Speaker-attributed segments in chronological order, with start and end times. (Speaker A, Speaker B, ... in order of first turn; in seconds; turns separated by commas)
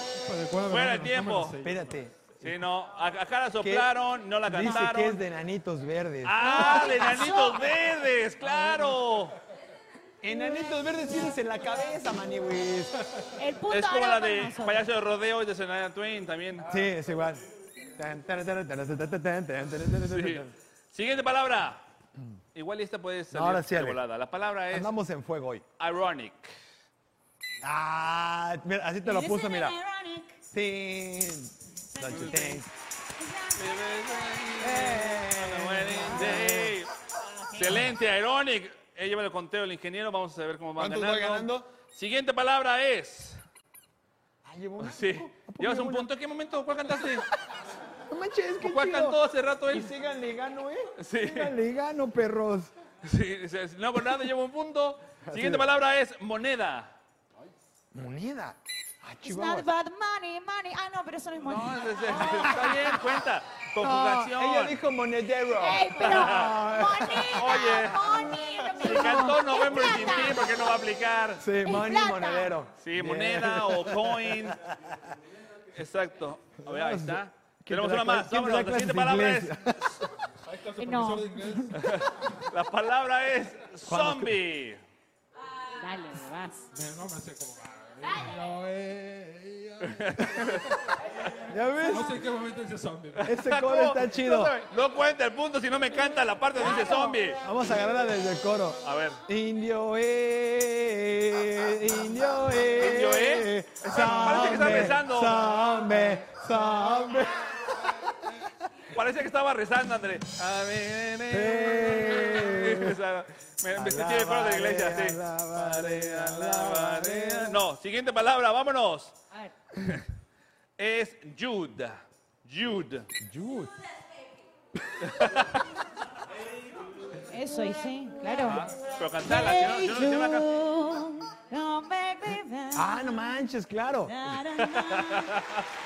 Speaker A: 0.2-1.9, Speaker B: 0.7-1.6, Speaker C: 1.6-2.1, Speaker B: 2.4-5.2, Speaker C: 3.6-3.9, Speaker C: 4.4-7.1, Speaker D: 4.6-4.9, Speaker B: 6.2-9.3, Speaker D: 6.4-7.8, Speaker C: 10.2-12.9, Speaker D: 13.4-14.8, Speaker B: 13.7-16.7, Speaker C: 16.7-20.5, Speaker B: 20.0-21.8, Speaker B: 22.5-24.9, Speaker C: 23.3-24.0, Speaker C: 24.7-25.6, Speaker B: 25.8-26.6, Speaker C: 27.6-29.7, Speaker D: 29.0-30.4, Speaker C: 30.5-32.7, Speaker D: 31.9-32.6, Speaker B: 32.1-32.4, Speaker D: 33.1-34.6, Speaker B: 33.5-36.9, Speaker C: 34.6-36.8, Speaker D: 35.9-36.6, Speaker D: 37.2-37.9, Speaker B: 37.5-43.4, Speaker C: 40.8-41.7, Speaker C: 44.4-46.1, Speaker B: 44.8-47.3, Speaker C: 48.1-52.7, Speaker B: 48.6-49.9, Speaker B: 51.0-51.5, Speaker B: 53.0-57.0, Speaker C: 55.3-55.7, Speaker C: 57.9-59.7, Speaker D: 59.2-63.2, Speaker B: 61.4-64.8, Speaker C: 63.8-67.9, Speaker D: 65.5-70.5, Speaker B: 65.9-66.5, Speaker B: 67.3-71.5, Speaker C: 71.4-75.0, Speaker D: 71.6-72.5, Speaker B: 72.8-74.6, Speaker B: 75.7-79.6, Speaker C: 76.6-80.1, Speaker A: 80.4-82.0, Speaker D: 80.8-81.7, Speaker B: 81.7-84.8, Speaker C: 83.9-84.4, Speaker D: 85.7-86.7, Speaker A: 86.7-93.3, Speaker B: 89.8-90.7, Speaker C: 91.5-92.2, Speaker B: 93.2-97.4, Speaker C: 93.3-94.5, Speaker C: 96.5-108.4, Speaker D: 96.6-97.2, Speaker B: 98.8-99.2, Speaker B: 102.7-105.5, Speaker B: 108.9-119.2, Speaker C: 111.3-113.0, Speaker C: 113.7-117.6, Speaker B: 120.8-123.1, Speaker C: 123.2-123.7, Speaker B: 125.0-125.7, Speaker D: 127.3-128.7, Speaker B: 128.4-130.5, Speaker D: 129.2-133.5, Speaker C: 132.7-134.3, Speaker D: 134.0-135.4, Speaker B: 134.6-135.7